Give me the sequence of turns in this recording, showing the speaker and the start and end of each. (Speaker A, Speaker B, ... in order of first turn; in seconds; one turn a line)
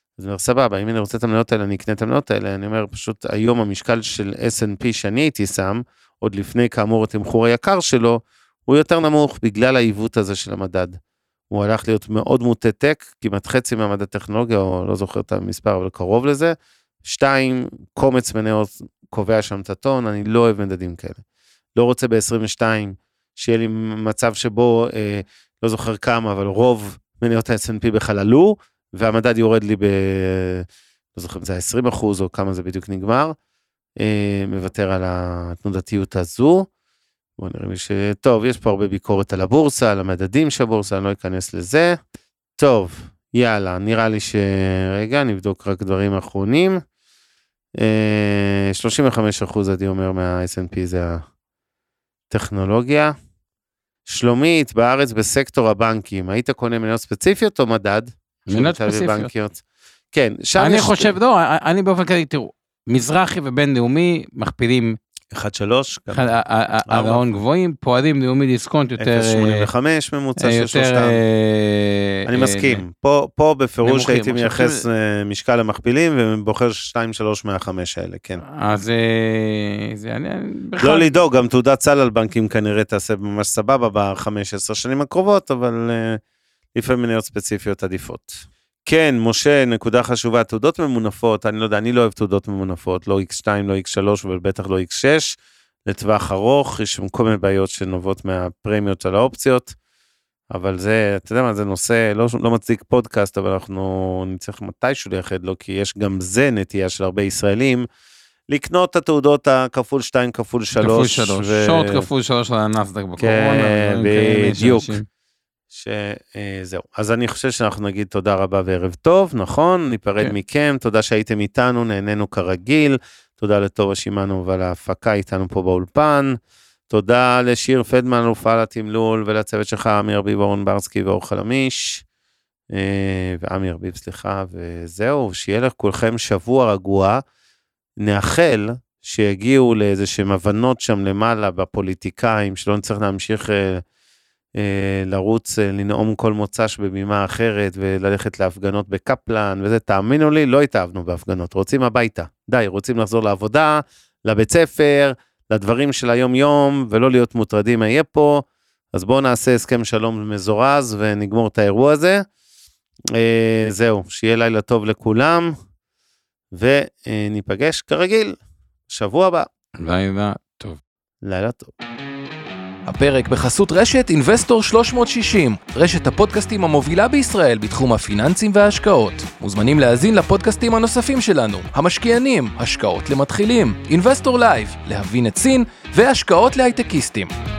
Speaker A: 0.2-11.0
Speaker A: 11.5-21.2
Speaker A: 21.8-33.4
Speaker A: 34.0-36.7
Speaker A: 37.4-42.0
Speaker A: 42.6-46.8
Speaker A: 47.8-51.2
Speaker A: 52.3-53.1
Speaker A: 54.1-59.6
Speaker B: 58.5-59.3
Speaker A: 60.1-61.1
Speaker B: 60.6-65.0
Speaker A: 65.3-66.3
Speaker B: 66.1-69.7
Speaker A: 66.9-67.2
Speaker A: 69.0-71.2
Speaker B: 70.4-72.8
Speaker A: 72.3-78.4
Speaker B: 73.8-74.9
Speaker B: 78.4-81.2
Speaker A: 80.8-86.2
Speaker A: 86.8-99.8
Speaker A: 100.5-107.9
Speaker A: 108.5-112.1
Speaker B: 110.8-115.0
Speaker A: 113.2-115.0
Speaker A: 115.7-126.4
Speaker A: 126.9-132.0
Speaker A: 132.7-137.2
Speaker A: 138.0-143.8
Speaker A: 144.6-162.2
Speaker A: 163.1-165.6
Speaker A: 166.5-168.4
Speaker A: 168.9-169.5
Speaker B: 169.8-170.8
Speaker A: 171.2-171.7
Speaker C: 172.9-187.3